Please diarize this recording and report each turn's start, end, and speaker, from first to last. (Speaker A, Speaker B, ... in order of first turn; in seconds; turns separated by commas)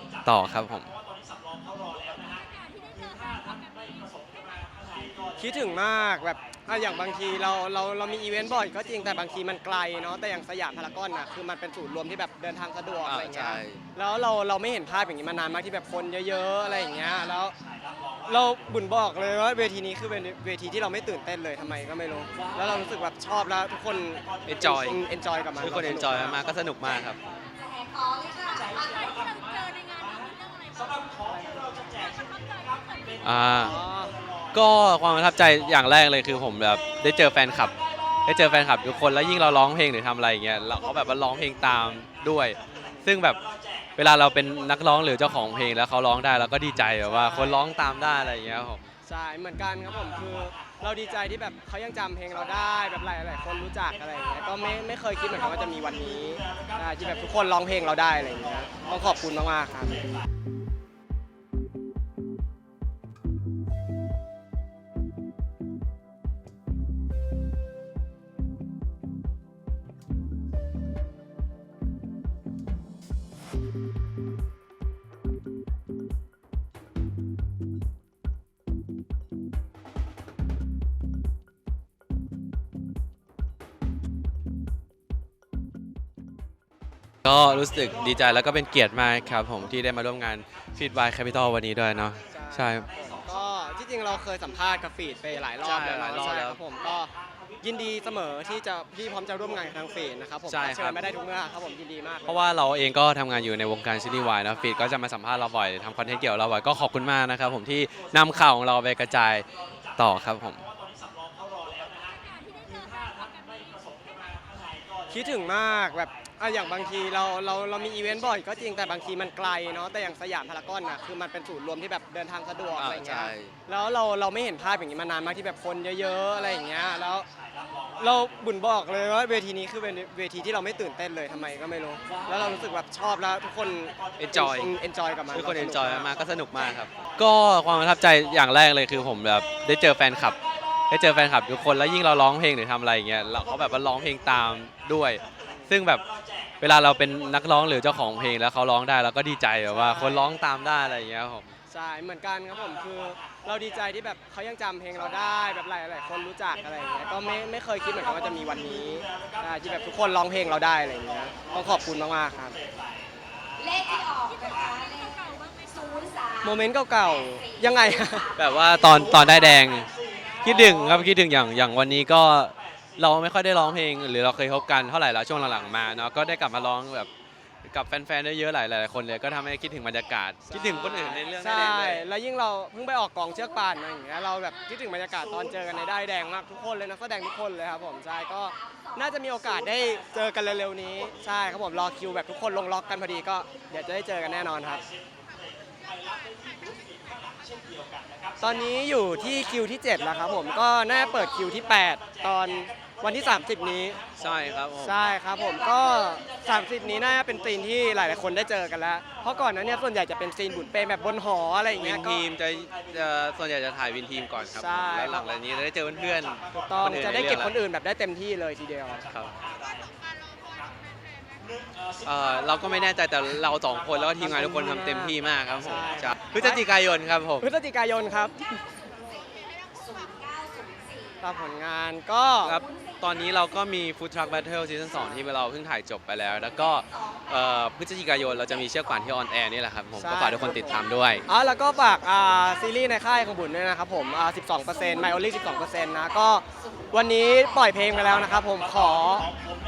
Speaker A: 0.2-0.9, Speaker B: 5.4-17.5, Speaker A: 13.0-13.8, Speaker B: 18.3-26.4, Speaker A: 24.4-25.0, Speaker A: 25.6-27.2, Speaker C: 27.9-29.7, Speaker A: 33.2-33.8, Speaker B: 33.6-34.1, Speaker A: 34.5-43.4, Speaker B: 42.8-43.1, Speaker A: 44.0-48.9, Speaker B: 47.0-47.7, Speaker B: 49.0-60.0, Speaker A: 87.2-92.8, Speaker B: 92.3-102.5, Speaker A: 95.6-96.6, Speaker A: 100.5-101.1, Speaker A: 102.2-109.5, Speaker A: 110.0-110.7, Speaker B: 115.1-127.2, Speaker A: 122.8-123.5, Speaker B: 128.0-136.1, Speaker A: 132.3-132.6, Speaker A: 134.2-134.7, Speaker A: 135.3-140.4, Speaker A: 140.9-146.0, Speaker B: 145.5-145.8, Speaker A: 146.6-151.5, Speaker B: 149.7-150.3, Speaker B: 151.7-162.6, Speaker C: 163.8-166.2, Speaker B: 166.4-168.3, Speaker A: 168.4-177.1, Speaker A: 177.6-182.0, Speaker B: 180.5-194.8, Speaker B: 198.4-204.0, Speaker A: 204.2-205.0, Speaker B: 204.8-212.2, Speaker A: 211.8-217.5, Speaker B: 214.5-215.3, Speaker B: 216.6-219.1, Speaker A: 222.0-227.5, Speaker B: 224.2-226.6, Speaker B: 227.4-228.5, Speaker C: 229.9-230.9, Speaker B: 231.2-232.6, Speaker A: 232.4-241.2, Speaker B: 240.0-249.3